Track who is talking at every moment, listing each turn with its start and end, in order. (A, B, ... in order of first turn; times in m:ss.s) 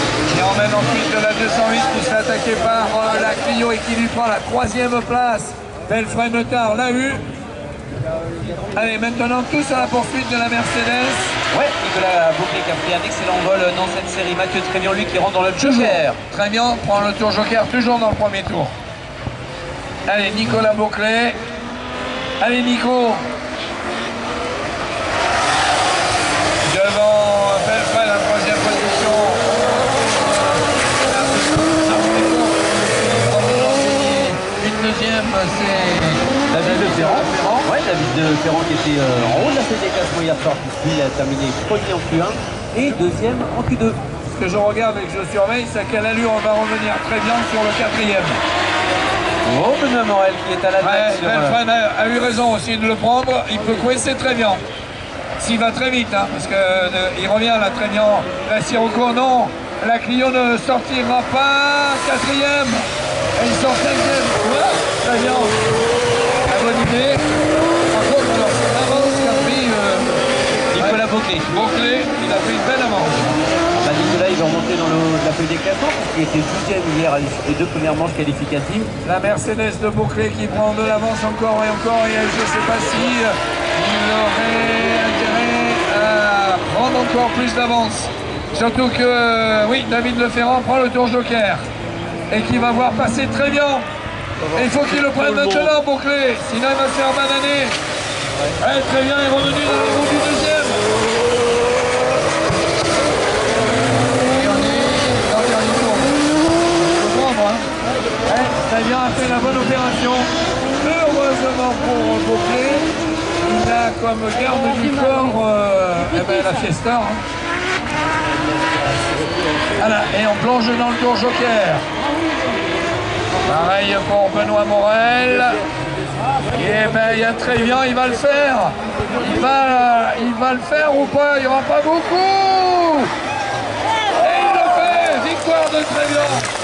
0:00.3-0:07.2 A
0:08.8-0:11.4 A
0:11.5-0:16.2 B
0:15.6-0:18.7 A
0:20.1-0:21.4 A
0:22.4-0:23.2 A
0:26.6-0:37.7 A
0:36.5-0:44.0 B
0:44.3-0:48.4 A
0:49.4-0:51.6 B
0:50.8-0:54.6 A
0:55.4-1:05.6 A
1:06.5-1:07.2 A
1:07.9-1:10.2 A
1:10.7-1:11.5 B
1:10.8-1:13.3 A
1:13.7-1:18.9 B
1:19.0-1:31.7 A
1:32.3-1:33.9 A
1:34.5-1:37.8 A
1:38.6-1:40.8 A
1:44.1-1:46.2 A
1:46.8-1:47.7 A
1:48.3-1:52.9 A
1:53.4-1:57.2 A
1:59.8-2:01.8 A
2:03.5-2:05.6 A
2:06.5-2:13.1 A
2:14.2-2:16.5 A